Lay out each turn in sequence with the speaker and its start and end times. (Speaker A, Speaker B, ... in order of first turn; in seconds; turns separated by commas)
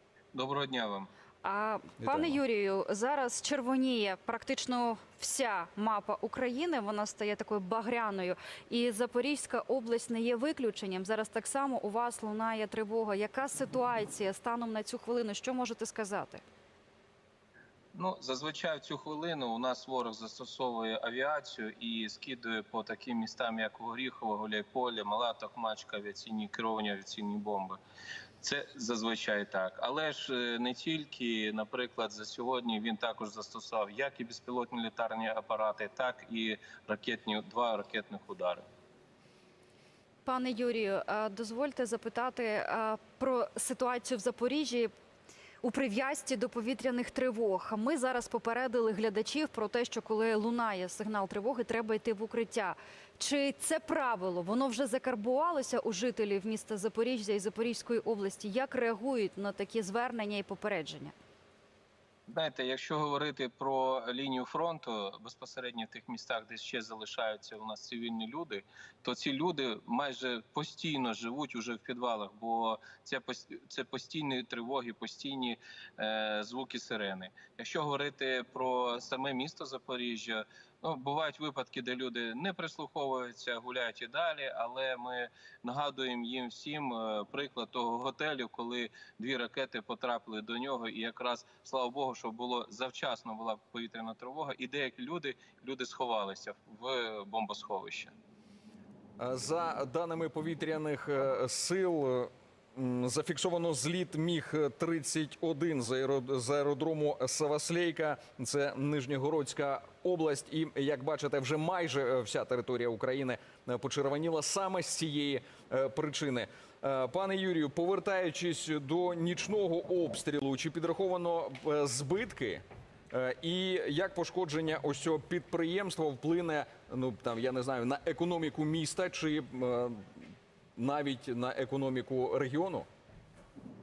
Speaker A: 0.3-1.1, Speaker B: 1.4-16.4, Speaker C: 2.0-2.4, Speaker A: 17.9-27.8, Speaker A: 28.4-38.6, Speaker B: 40.2-44.9, Speaker B: 45.6-61.1, Speaker A: 62.3-98.1, Speaker C: 99.2-132.9